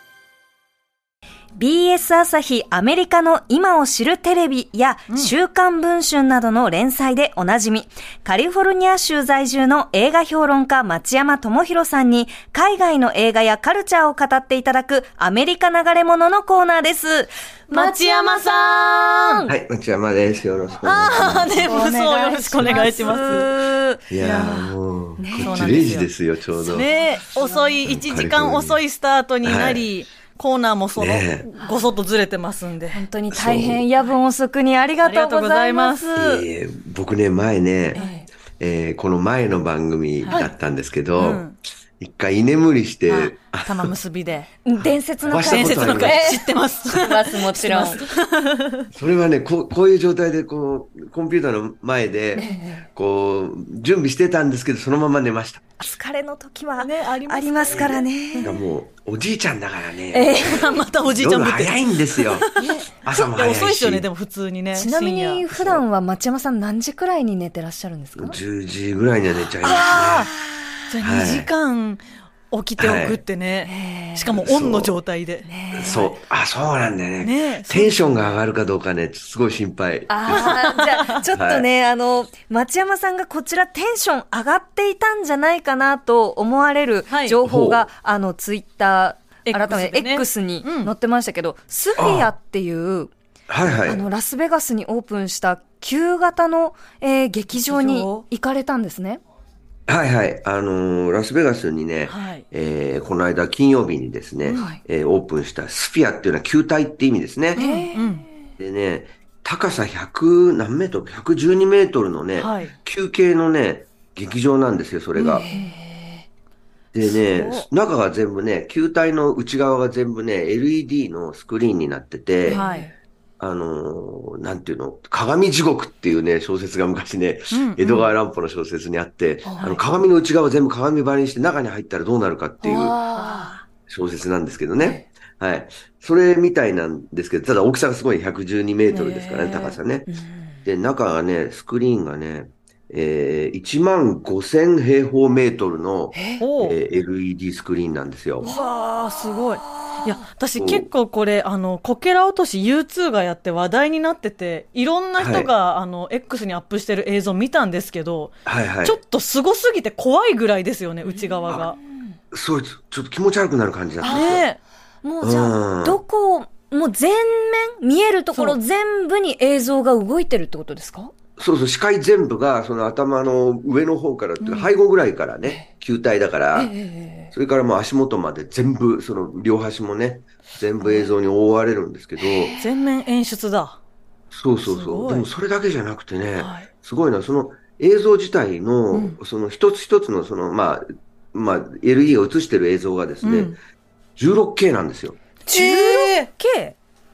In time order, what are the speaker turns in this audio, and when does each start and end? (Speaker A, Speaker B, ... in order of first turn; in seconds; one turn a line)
Speaker A: 1.5-19.5
Speaker B: 17.7-19.4
Speaker C: 19.5-21.8
Speaker B: 20.8-23.5
Speaker A: 21.6-24.0
Speaker C: 22.6-23.4
Speaker C: 24.1-26.9
Speaker B: 24.2-24.7
Speaker A: 25.2-25.8
Speaker B: 25.3-33.0
Speaker A: 26.6-27.7
Speaker C: 27.8-28.8
Speaker C: 29.4-29.9
Speaker C: 30.9-31.4
Speaker A: 31.6-31.9
Speaker A: 32.9-36.4
Speaker C: 33.3-33.8
Speaker B: 35.0-36.2
Speaker C: 36.1-38.0
Speaker A: 38.0-38.3
Speaker C: 38.6-41.5
Speaker B: 41.1-41.5
Speaker C: 42.0-43.9
Speaker B: 43.1-44.5
Speaker A: 44.6-48.0
Speaker C: 44.8-46.4
Speaker B: 45.3-48.9
Speaker C: 48.9-55.6
Speaker A: 52.4-52.9
Speaker A: 55.8-58.5
Speaker B: 56.8-58.5
Speaker C: 57.7-62.5
Speaker A: 60.1-60.8
Speaker B: 60.4-65.4
Speaker A: 62.5-62.9
Speaker C: 63.0-64.1
Speaker A: 64.7-68.4
Speaker C: 65.5-65.8
Speaker C: 68.2-70.3
Speaker A: 69.6-70.9
Speaker B: 69.8-70.3
Speaker B: 70.9-76.1
Speaker C: 71.0-71.5
Speaker C: 72.8-73.2
Speaker A: 73.7-74.4
Speaker C: 74.4-75.0
Speaker A: 75.5-76.1
Speaker C: 75.7-80.7
Speaker B: 77.2-78.3
Speaker A: 80.1-93.1
Speaker B: 80.3-81.2
Speaker C: 81.3-81.7
Speaker B: 87.1-87.3
Speaker C: 87.4-87.8
Speaker B: 89.5-90.9
Speaker C: 92.0-92.3
Speaker C: 93.5-94.0
Speaker A: 93.8-99.2
Speaker B: 97.5-98.2
Speaker C: 99.9-107.6
Speaker B: 102.1-102.4
Speaker B: 104.4-104.8
Speaker A: 104.5-104.8
Speaker B: 107.5-108.2
Speaker A: 107.6-108.2
Speaker C: 108.6-115.5
Speaker B: 112.3-112.7
Speaker B: 115.1-115.7
Speaker A: 115.4-116.2
Speaker C: 116.9-122.6
Speaker B: 117.2-117.7
Speaker A: 122.5-122.9
Speaker B: 122.5-122.9
Speaker C: 123.4-133.0
Speaker B: 127.5-128.1
Speaker A: 129.4-129.8
Speaker A: 132.6-133.5
Speaker B: 133.1-133.6
Speaker C: 133.9-140.1
Speaker B: 138.9-139.8
Speaker A: 140.1-140.6
Speaker C: 140.6-148.5
Speaker A: 146.1-146.4
Speaker B: 146.4-146.8
Speaker A: 148.4-150.2
Speaker B: 148.4-161.8
Speaker C: 150.6-150.9
Speaker C: 155.2-155.5
Speaker C: 158.4-159.0
Speaker A: 161.0-162.2
Speaker C: 162.3-164.4
Speaker A: 164.0-164.4
Speaker B: 164.1-164.6
Speaker A: 165.0-171.1
Speaker C: 165.2-166.0
Speaker C: 171.4-176.7
Speaker B: 174.4-174.7
Speaker A: 176.5-177.3
Speaker C: 177.3-182.5
Speaker A: 180.8-181.1
Speaker A: 182.2-182.7
Speaker B: 182.6-183.8
Speaker C: 184.3-193.5
Speaker B: 184.7-185.3
Speaker B: 186.4-186.7
Speaker B: 193.2-193.6
Speaker C: 194.2-195.2
Speaker A: 195.4-196.7
Speaker B: 195.5-196.3